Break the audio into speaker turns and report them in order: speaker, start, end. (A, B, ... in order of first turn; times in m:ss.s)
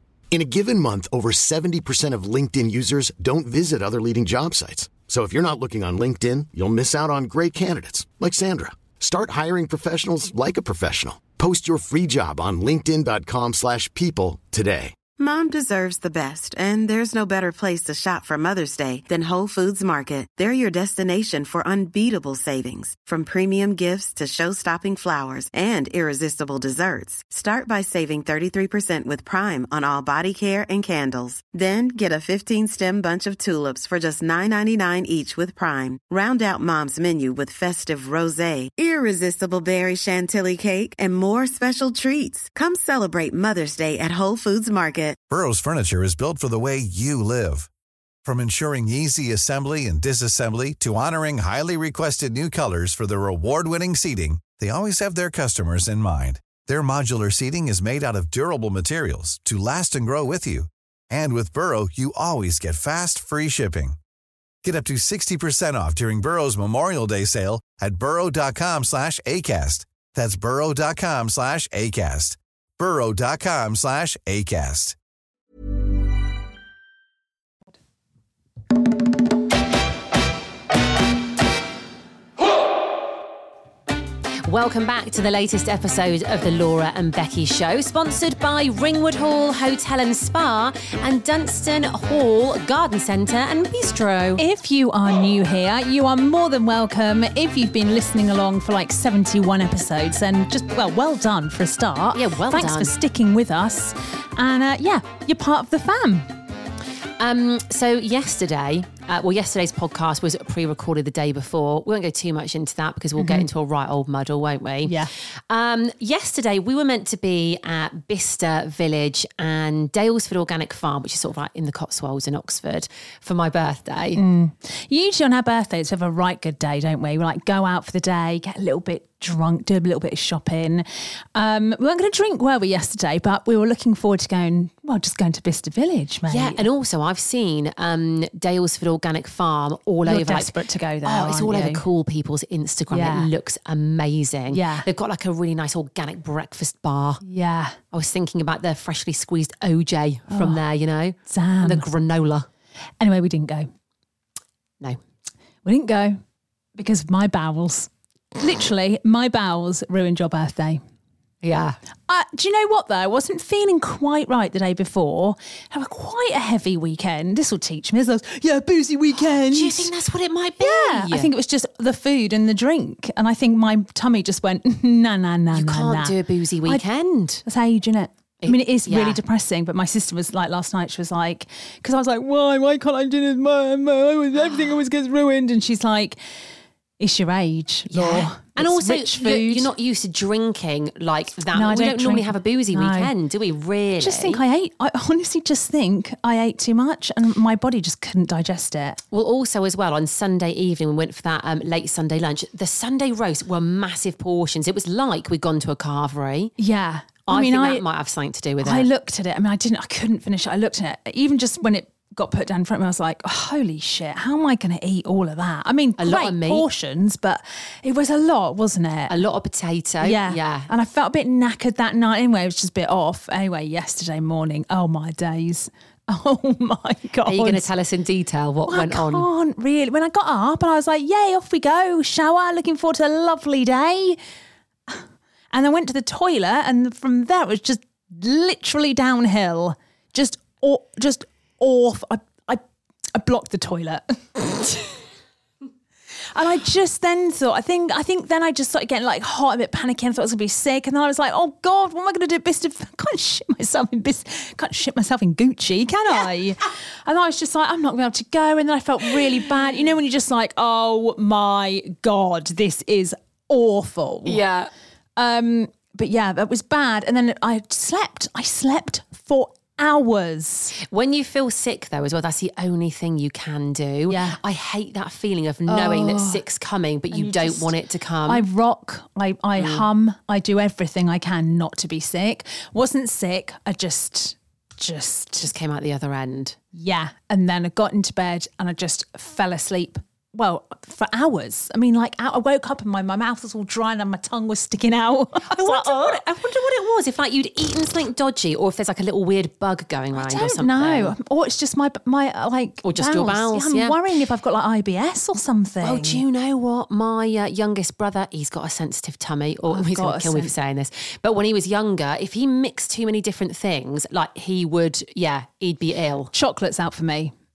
0:00.3-0:15.0 A
0:15.2-0:45.2 B
0:45.3-0:47.7 C
0:48.2-1:04.0 C
1:04.6-1:15.0 C
1:24.4-1:34.4 D
1:34.4-1:46.3 E
1:42.1-1:43.0 D
1:47.2-2:04.2 D
1:53.2-1:53.5 E
1:54.8-1:55.1 E
2:04.1-2:16.7 E
2:16.3-2:27.2 D
2:20.0-2:21.8 E
2:22.9-2:23.3 E
2:24.5-2:24.9 E
2:27.2-2:27.8 E
2:27.9-2:32.5 D
2:30.3-2:30.7 E
2:31.2-2:31.9 E
2:33.0-2:33.7 E
2:35.6-2:36.2 E
2:36.8-2:40.8 E
2:41.4-2:41.8 D
2:42.1-2:49.9 E
2:49.1-2:51.3 D
2:50.6-2:56.8 E
2:55.5-2:57.4 D
2:57.4-3:06.2 E
2:58.4-2:59.2 D
3:04.4-3:04.7 D
3:07.0-3:09.7 E
3:07.9-3:14.4 D
3:11.5-3:13.1 E
3:14.0-3:19.0 E
3:19.1-3:26.5 D
3:26.6-3:27.9 E
3:27.3-3:28.9 D
3:28.6-3:39.2 E
3:36.0-3:36.7 D
3:39.1-3:40.7 D
3:40.0-3:47.7 E
3:47.2-3:49.3 D
3:48.7-3:54.2 E
3:54.9-4:02.6 E
4:03.2-4:05.0 E
4:06.4-4:24.4 E
4:24.2-4:24.7 D
4:25.2-4:30.8 E
4:30.8-4:38.5 D
4:34.1-4:34.4 E
4:35.7-4:36.4 E
4:37.1-4:45.5 E
4:39.6-4:39.9 D
4:45.4-4:46.6 D
4:46.7-4:56.2 E
4:55.4-5:01.2 D
5:00.1-5:06.2 E
5:02.8-5:04.0 D
5:05.8-5:16.3 D
5:09.7-5:10.6 E
5:16.3-5:17.3 E